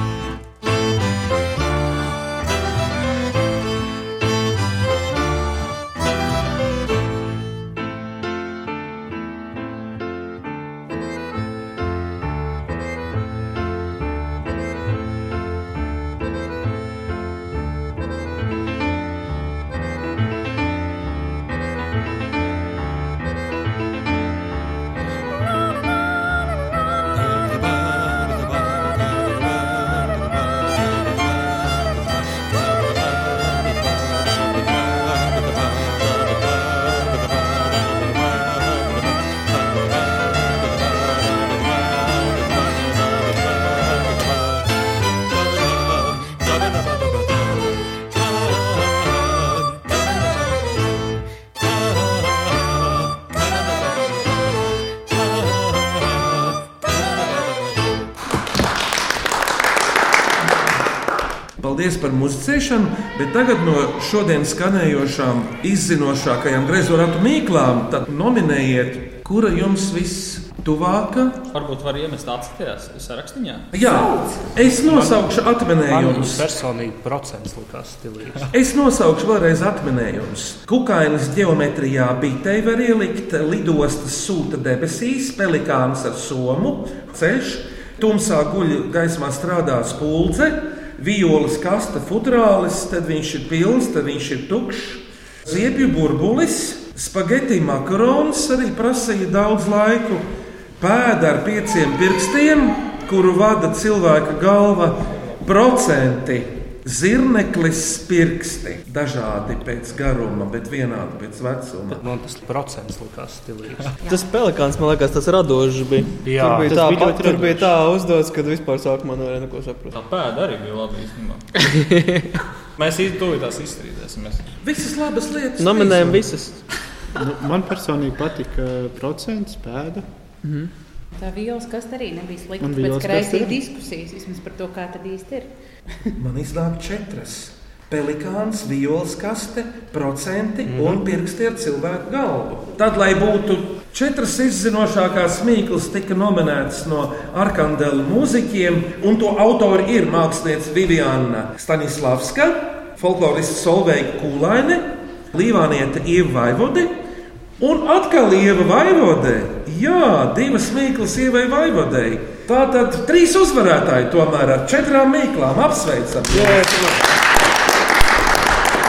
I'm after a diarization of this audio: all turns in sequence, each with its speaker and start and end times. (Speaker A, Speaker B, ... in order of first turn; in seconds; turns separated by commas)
Speaker A: 61.6-71.4, Speaker B: 71.5-73.7, Speaker A: 73.7-76.4, Speaker C: 75.8-78.5, Speaker A: 78.5-100.2, Speaker A: 100.8-112.0, Speaker C: 111.9-114.0, Speaker D: 114.0-119.9, Speaker C: 116.2-116.7, Speaker E: 116.6-117.7, Speaker B: 119.9-121.4, Speaker B: 122.8-124.5, Speaker A: 124.6-126.2, Speaker D: 125.6-126.6, Speaker E: 127.1-130.1, Speaker D: 130.4-130.7, Speaker F: 131.1-135.5, Speaker E: 132.6-133.6, Speaker A: 136.2-156.9, Speaker C: 140.7-141.0, Speaker A: 157.6-166.9